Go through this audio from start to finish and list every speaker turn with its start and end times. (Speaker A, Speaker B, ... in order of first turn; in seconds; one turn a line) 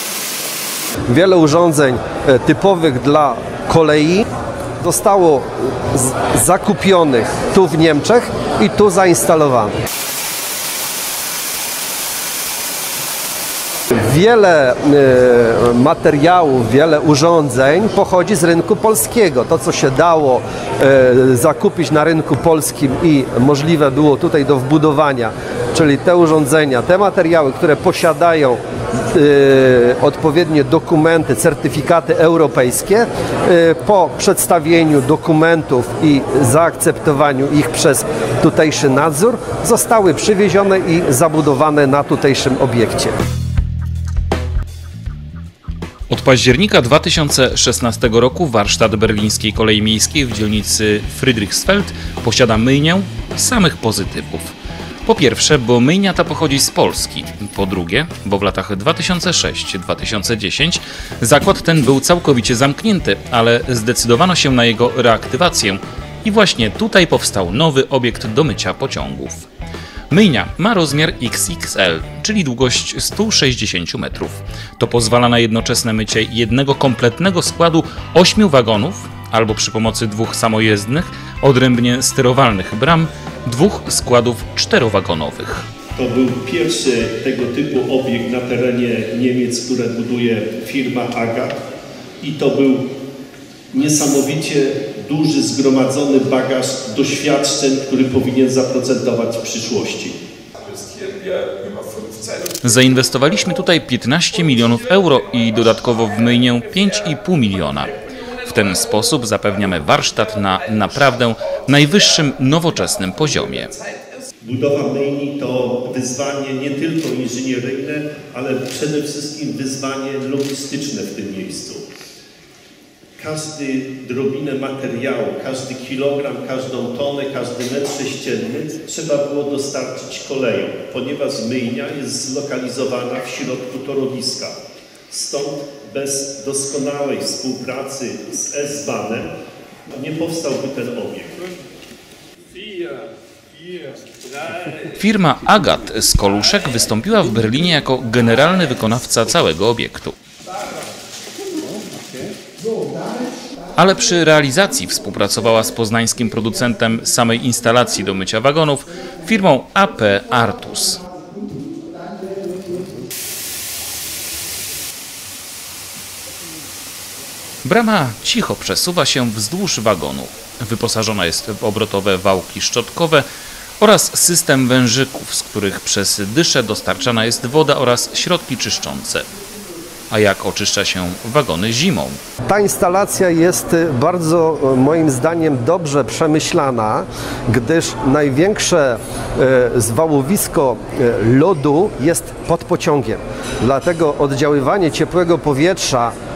Speaker A: 1.1-4.3
Speaker A: 4.8-9.8
Speaker A: 14.0-43.2
Speaker B: 46.1-54.5
Speaker B: 55.1-69.5
Speaker B: 70.1-85.7
Speaker C: 86.0-91.6
Speaker C: 92.2-92.9
Speaker C: 93.7-100.2
Speaker D: 100.8-102.5
Speaker B: 102.6-113.8
Speaker C: 114.4-121.8
Speaker C: 123.2-134.6
Speaker C: 135.1-139.3
Speaker C: 139.9-141.4
Speaker D: 142.6-143.1
Speaker D: 143.6-144.0
Speaker B: 144.9-150.2
Speaker B: 153.8-161.0
Speaker B: 167.7-173.3
Speaker B: 173.8-179.3
Speaker B: 180.1-182.2
Speaker A: 182.5-196.2